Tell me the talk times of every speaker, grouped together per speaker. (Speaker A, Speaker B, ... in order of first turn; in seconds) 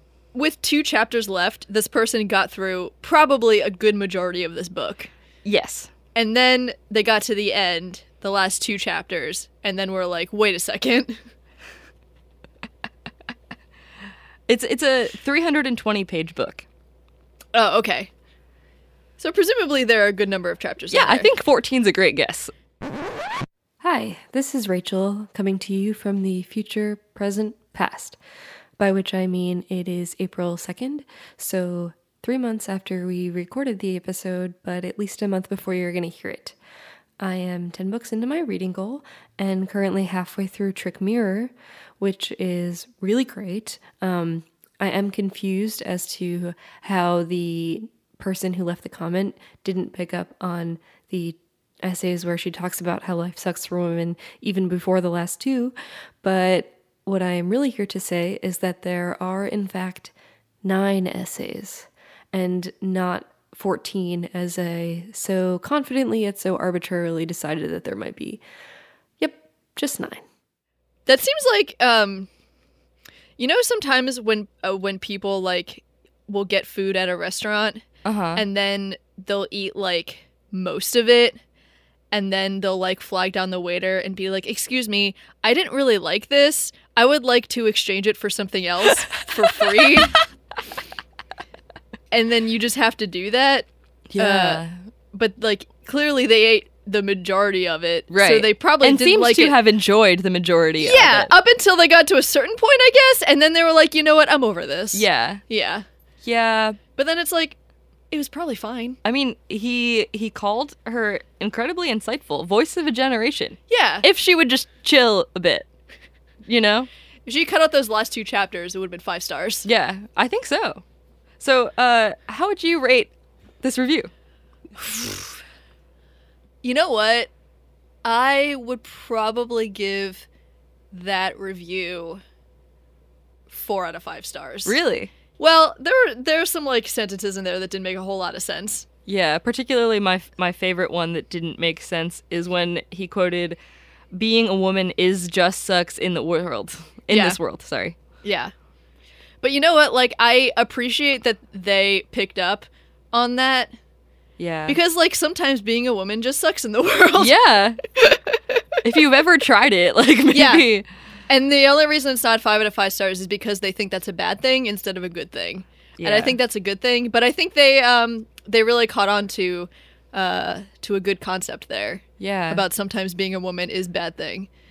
Speaker A: 0.3-5.1, 6.2-11.2, 17.5-18.1, 19.2-21.3, 71.1-72.3, 73.4-77.8, 78.4-81.4, 82.1-90.2, 92.1-99.6, 100.8-105.9, 107.0-107.6, 108.1-109.0, 113.7-114.1, 117.3-119.7, 126.6-127.3, 128.0-130.3, 130.9-132.2, 133.5-134.8, 135.4-138.9, 147.1-147.4, 148.2-148.5, 149.4-153.7, 154.7-157.3, 158.0-158.3, 160.3-160.7, 161.3-174.5
Speaker B: 5.5-5.9, 14.5-16.6, 20.9-22.5, 78.0-78.4, 89.8-90.2, 94.1-94.7, 98.1-101.3, 104.9-105.4, 106.2-106.8, 109.0-115.7, 116.5-116.9, 119.7-120.8, 121.4-123.1, 123.6-124.1, 134.7-135.1, 139.1-143.6, 144.1-147.9, 154.4-154.8, 157.2-157.8, 158.8-160.8, 166.0-166.4, 172.2-172.6
Speaker C: 23.8-28.2, 28.8-36.6, 37.2-60.1, 60.6-68.4, 69.2-70.2